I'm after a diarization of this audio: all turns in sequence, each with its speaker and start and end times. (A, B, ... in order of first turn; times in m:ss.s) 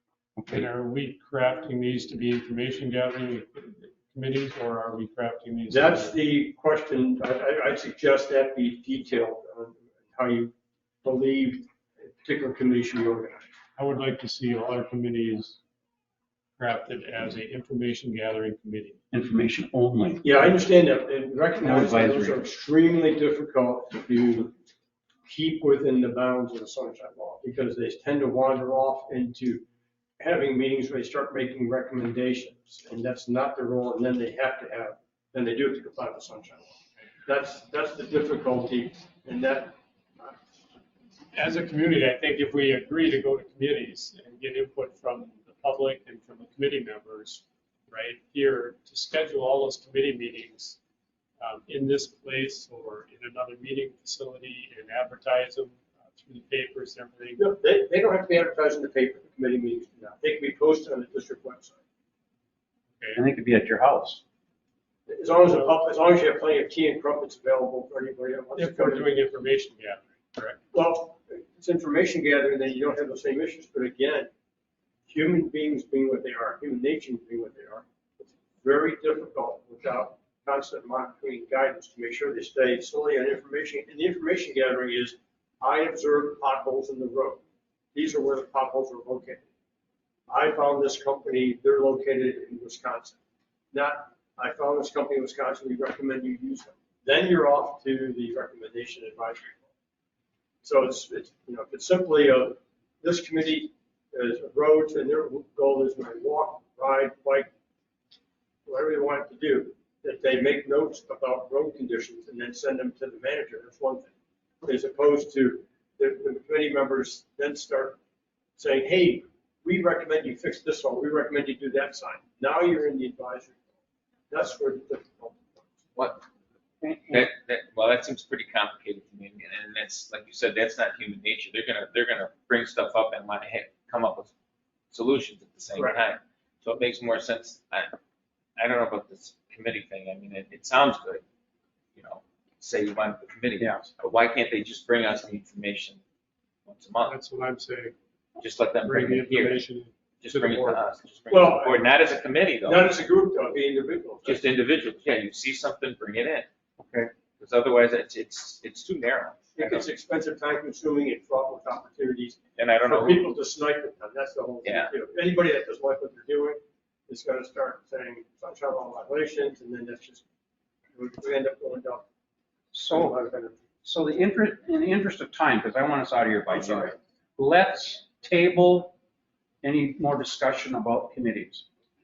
0:00.4-0:00.7 A
0:00.5-0:06.2 B
0:05.7-0:13.5 C
0:13.8-0:15.6 B
0:16.6-0:19.0 B
0:19.1-0:20.2 A
0:20.2-0:24.5 C
0:21.6-0:22.4 A
0:25.2-0:29.6 C
0:30.2-0:40.4 C
0:41.3-0:50.8 B
0:51.4-0:57.4 B
0:57.4-1:01.8 C
1:03.2-1:04.2 A
1:05.1-1:09.1 C
1:08.6-1:10.6 B
1:10.7-1:14.3 C
1:15.1-1:27.4 C
1:27.9-1:29.5 C
1:30.3-1:33.2 C
1:33.7-1:39.7 C
1:40.6-1:47.5 C
1:48.6-1:58.0 C
1:58.6-2:03.7 C
2:04.3-2:05.8 C
2:05.9-2:06.2 D
2:06.8-2:07.3 A
2:07.1-2:14.3 D
2:14.9-2:17.9 D
2:15.7-2:16.0 C
2:18.6-2:21.2 D
2:22.0-2:26.0 D
2:23.6-2:23.9 A
2:26.6-2:27.1 D
2:27.0-2:27.9 B
2:28.4-2:29.7 D
2:28.8-2:30.8 B
2:30.2-2:32.9 D
2:31.3-2:31.9 C
2:32.6-2:34.5 C
2:34.2-2:36.5 D
2:37.1-2:39.8 D
2:39.6-2:50.2 C
2:42.6-2:43.3 D
2:44.6-2:44.9 D
2:50.9-2:52.0 C
2:52.7-2:53.2 A
2:52.9-2:53.6 C
2:53.8-2:58.9 A
2:56.5-2:56.9 C
2:59.6-3:01.6 A